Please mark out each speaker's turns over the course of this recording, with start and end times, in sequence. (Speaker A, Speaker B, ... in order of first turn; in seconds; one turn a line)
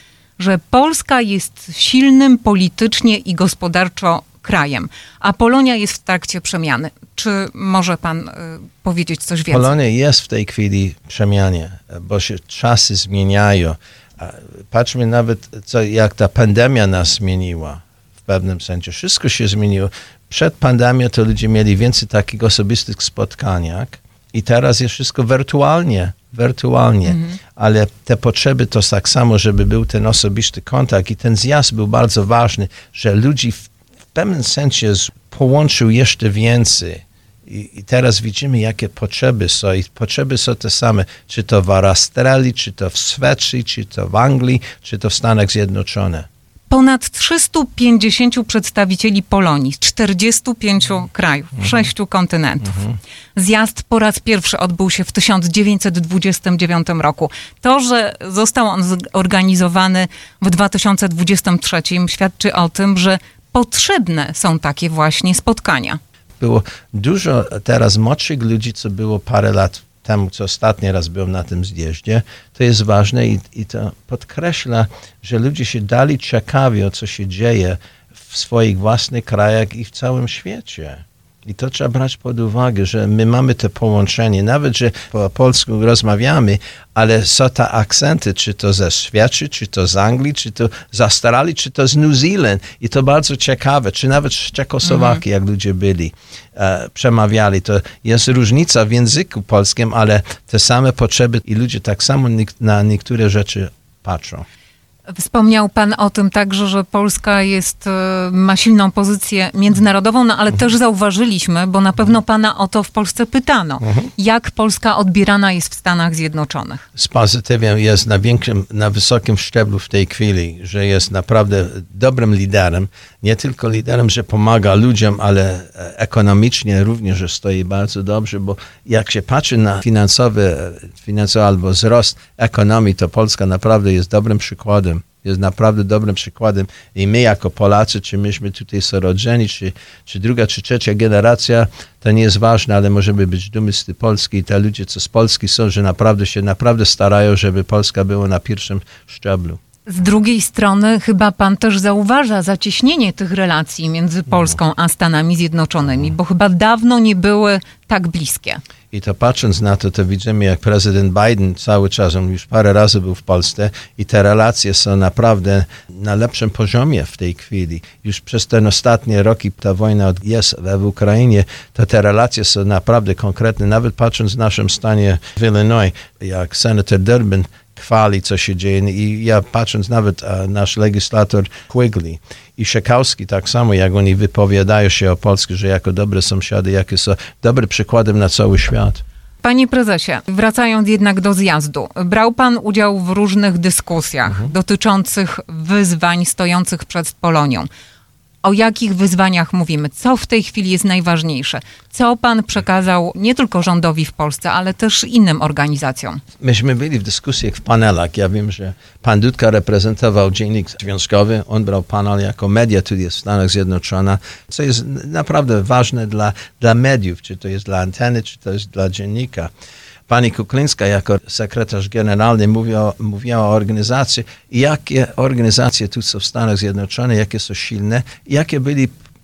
Speaker A: 0.4-9.7
Speaker B: 9.5-46.3
Speaker A: 27.1-27.4
Speaker A: 46.7-66.0
Speaker B: 66.4-104.4
Speaker A: 94.9-95.2
Speaker A: 105.1-116.8
Speaker B: 113.8-114.1
Speaker B: 117.0-149.6
Speaker A: 149.8-158.6
Speaker B: 158.9-189.0
Speaker A: 189.4-197.7
Speaker A: 198.4-206.2
Speaker B: 206.4-219.5
Speaker B: 220.1-228.9